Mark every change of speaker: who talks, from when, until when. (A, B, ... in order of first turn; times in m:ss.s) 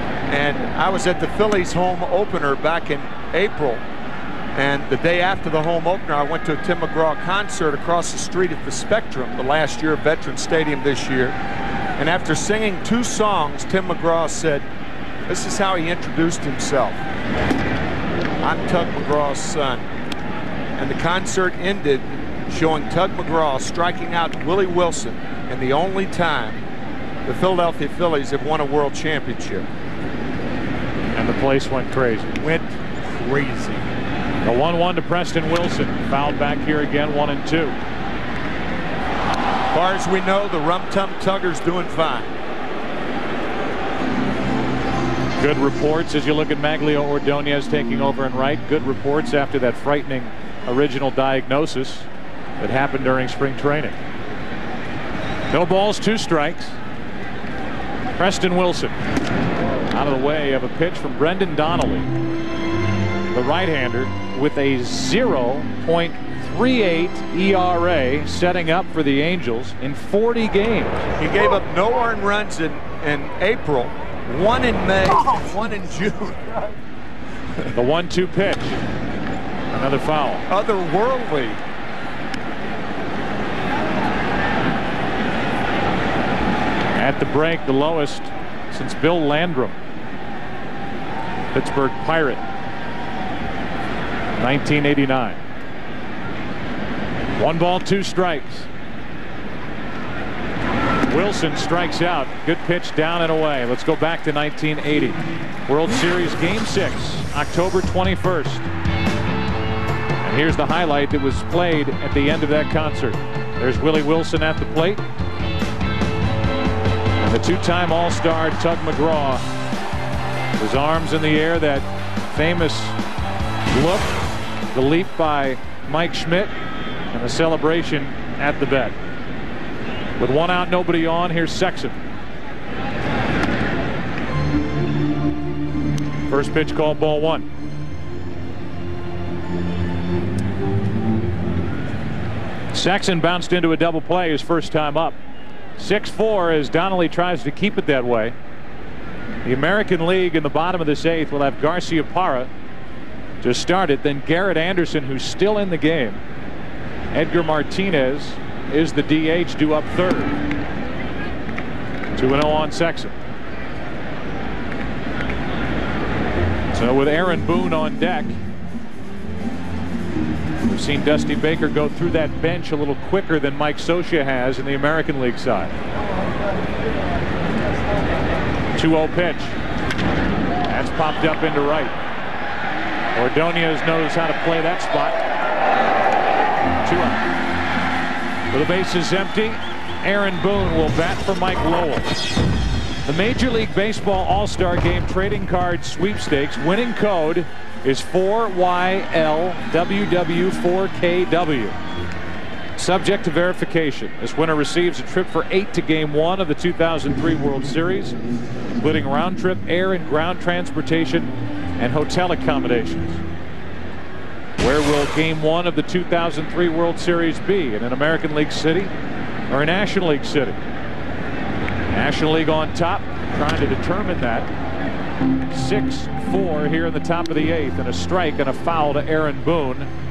0:00.3-0:03.8 A
0:04.6-0:11.4 A
0:12.0-0:14.7 A
0:15.3-0:17.0 A
0:18.4-0:19.8 A
0:20.8-0:26.6 A
0:27.3-0:29.7 A
0:31.2-0:32.3 B
0:32.4-0:33.9 A
0:34.4-0:37.8 B
0:39.7-0:42.3 A
0:45.4-0:52.1 B
0:52.6-0:54.0 B
0:55.5-0:56.8 B
0:58.2-0:59.0 B
0:59.9-1:02.1 B
1:03.3-1:11.1 B
1:11.2-1:16.7 A
1:17.7-1:18.8 B
1:19.7-1:20.4 B
1:20.5-1:21.6 A
1:27.0-1:29.8 B
1:31.5-1:32.4 B
1:34.4-1:35.4 B
1:37.4-1:38.7 B
1:41.1-1:48.7 B
1:50.2-1:55.0 B
1:57.2-1:59.4 B
2:00.6-2:03.0 B
2:03.7-2:04.1 B
2:04.7-2:06.5 B
2:07.1-2:09.0 B
2:10.2-2:12.0 B
2:16.3-2:17.5 B
2:22.7-2:25.2 B
2:25.8-2:28.4 B
2:29.4-2:32.5 B
2:33.4-2:36.2 B
2:37.1-2:40.4 B
2:42.2-2:43.2 B
2:46.7-2:48.4 B
2:50.6-2:55.7 B
2:58.8-2:59.6 B
3:00.7-3:02.0 B
3:03.2-3:05.2 B
3:06.8-3:07.2 B
3:08.5-3:12.1 B
3:13.1-3:21.8 B
3:22.8-3:28.2 B
3:28.8-3:33.2 B
3:34.6-3:38.9 B
3:39.5-3:40.6 B
3:41.9-3:44.5 B
3:45.5-3:49.9 B